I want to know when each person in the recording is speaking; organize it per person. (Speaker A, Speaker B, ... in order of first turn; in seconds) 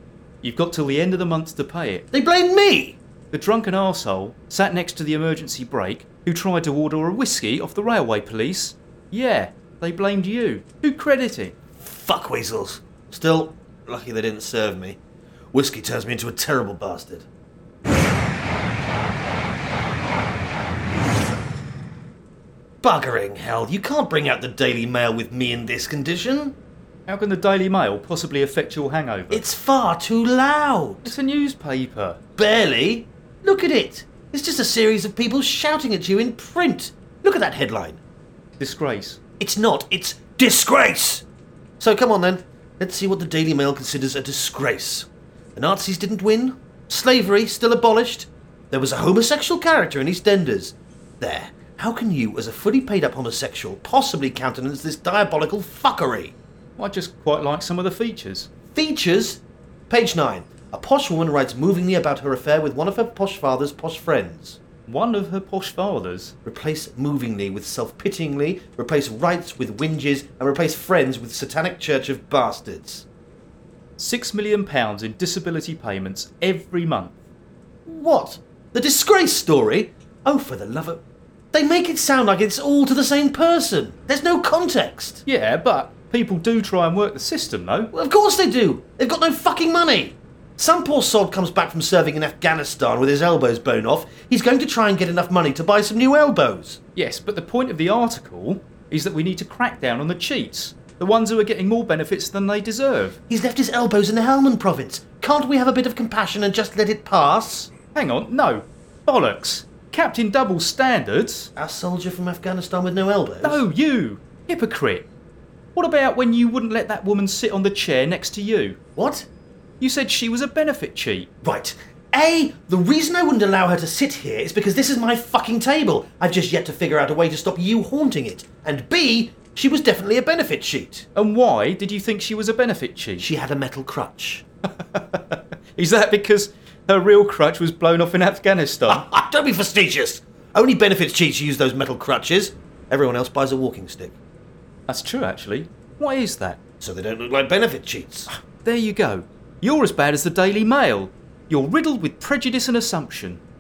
Speaker A: 0.4-2.1, 3.3-11.6, 27.1-29.4, 31.1-32.2, 38.6-39.2, 56.8-58.5, 64.9-66.3, 74.0-77.2, 85.3-87.9, 97.0-103.2, 107.9-111.5, 113.4-115.1, 115.8-118.8, 119.8-121.3, 131.2-133.3, 134.8-139.1, 144.9-146.6, 148.3-153.4
Speaker B: 2.1-3.0, 11.8-15.0, 15.5-17.3, 22.8-26.6, 29.3-31.1, 32.4-38.0, 39.4-41.2, 41.8-56.4, 58.7-64.6, 66.5-73.1, 77.9-81.0, 81.5-85.2, 87.9-96.8, 103.3-107.7, 111.5-113.6, 119.0-119.3, 121.4-131.1, 133.2-134.4, 138.9-144.2, 146.8-148.3